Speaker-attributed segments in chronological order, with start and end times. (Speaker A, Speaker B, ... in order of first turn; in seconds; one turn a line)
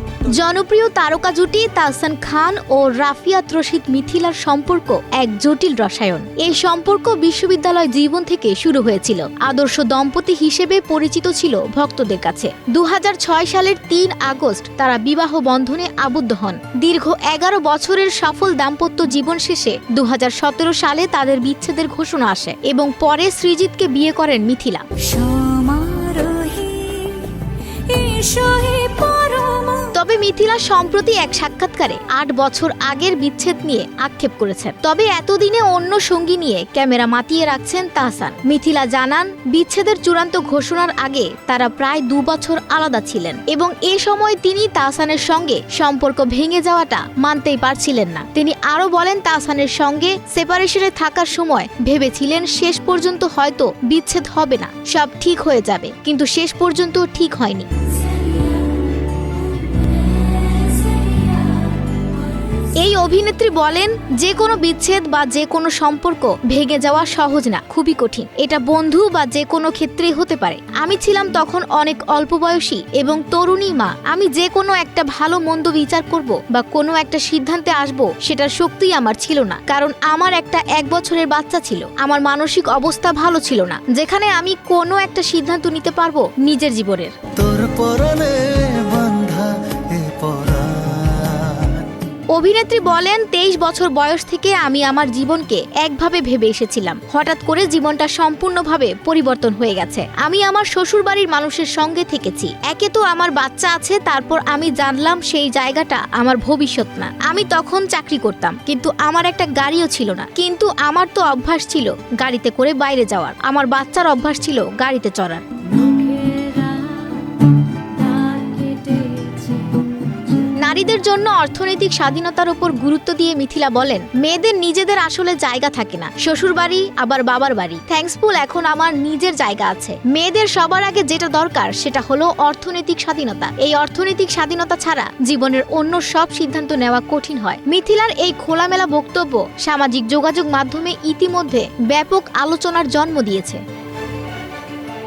Speaker A: 0.4-24.9
Speaker B: 24.9-29.9
Speaker A: 29.9-57.7
Speaker B: 57.9-62.7
Speaker A: 62.8-87.2
Speaker C: 87.4-91.9
Speaker A: 92.3-115.4
Speaker B: 115.6-120.3
Speaker A: 120.6-143.6